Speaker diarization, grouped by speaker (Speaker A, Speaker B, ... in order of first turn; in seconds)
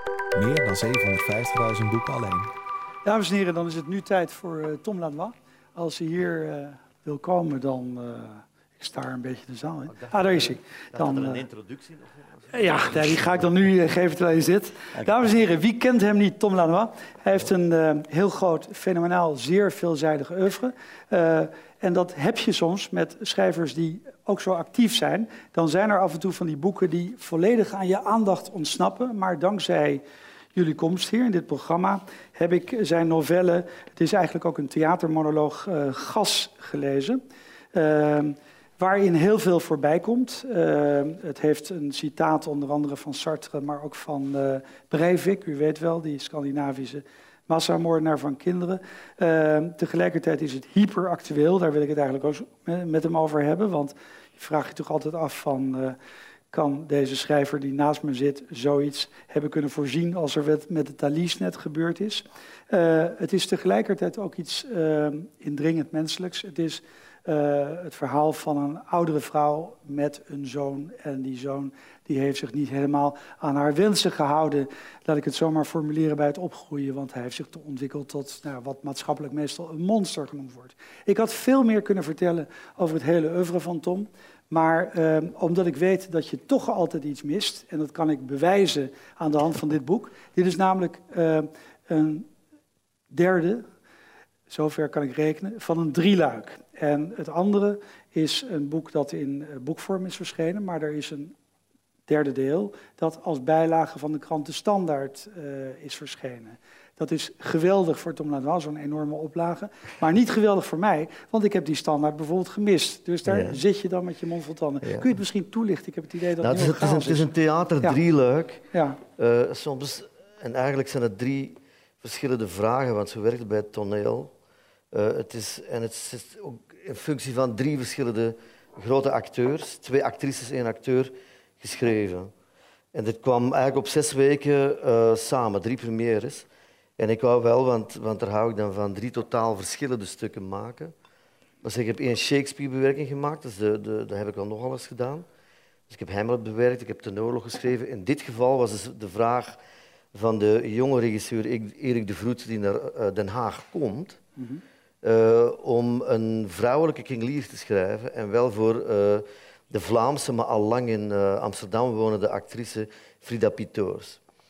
Speaker A: 0.3-2.5
Speaker B: 3.0-11.4, 12.5-30.0, 30.5-37.2, 37.7-56.0, 56.5-92.3, 93.1-93.7, 94.5-101.3, 102.1-117.3, 118.7-119.0, 154.4-154.6
Speaker C: 9.9-13.3, 113.2-113.6, 114.8-115.2, 116.4-124.3, 124.9-132.3, 132.9-136.5, 137.0-140.9, 141.6-145.2, 145.9-149.6, 150.1-154.2, 155.0-164.2